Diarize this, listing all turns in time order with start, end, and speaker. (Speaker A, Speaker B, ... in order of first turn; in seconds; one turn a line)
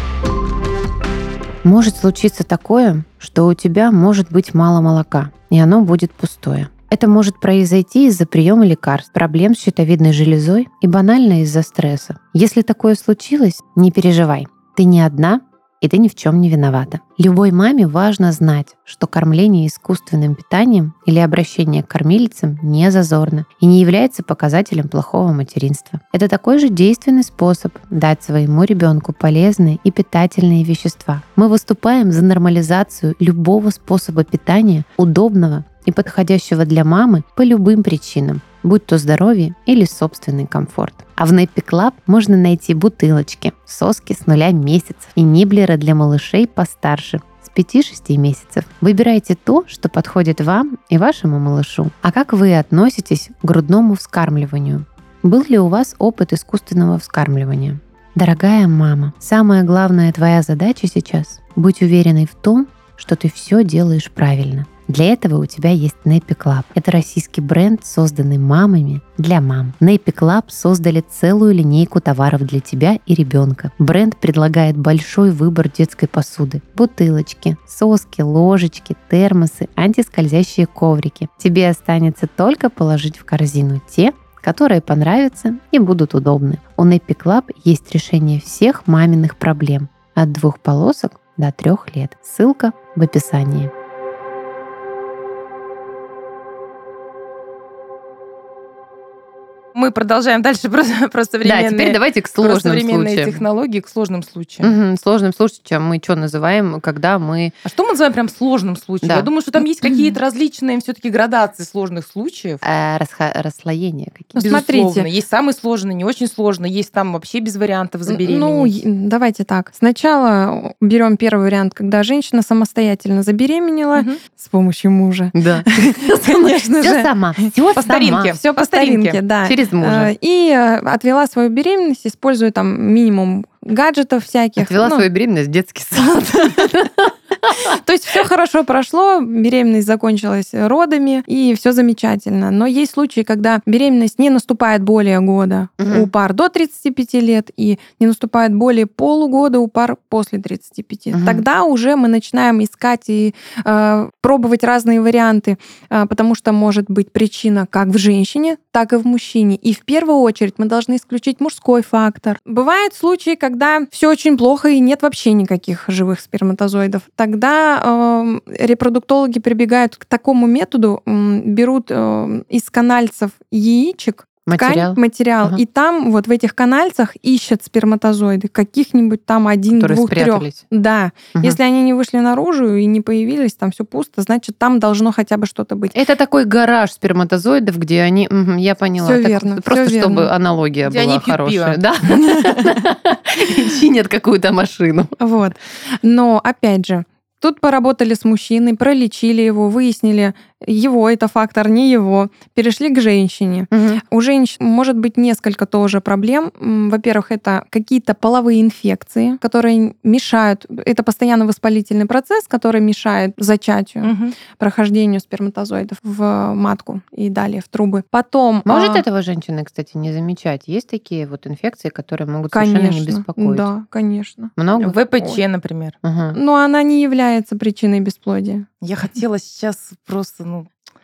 Speaker A: 1.6-93.7
Speaker B: 99.7-104.7
Speaker A: 101.4-103.4
Speaker A: 104.6-107.5
Speaker B: 107.6-112.6
Speaker A: 109.0-109.3
Speaker A: 112.6-114.6
Speaker C: 114.4-115.1
Speaker B: 114.4-118.8
Speaker C: 118.1-127.5
Speaker A: 125.3-128.3
Speaker B: 127.8-129.2
Speaker C: 128.3-135.1
Speaker A: 129.4-130.1
Speaker A: 134.6-137.5
Speaker C: 137.5-186.0
Speaker A: 145.8-146.1
Speaker A: 151.1-151.4
Speaker A: 174.5-175.6
Speaker A: 179.7-180.6
Speaker A: 185.9-195.2
Speaker C: 189.0-190.3
Speaker B: 190.8-191.8
Speaker C: 195.2-219.0
Speaker A: 203.7-204.0
Speaker B: 214.0-214.3
Speaker A: 218.7-223.7
Speaker C: 222.5-225.4
Speaker A: 224.6-224.9
Speaker B: 224.8-226.0
Speaker A: 226.0-226.4
Speaker C: 226.3-228.7
Speaker B: 228.8-230.7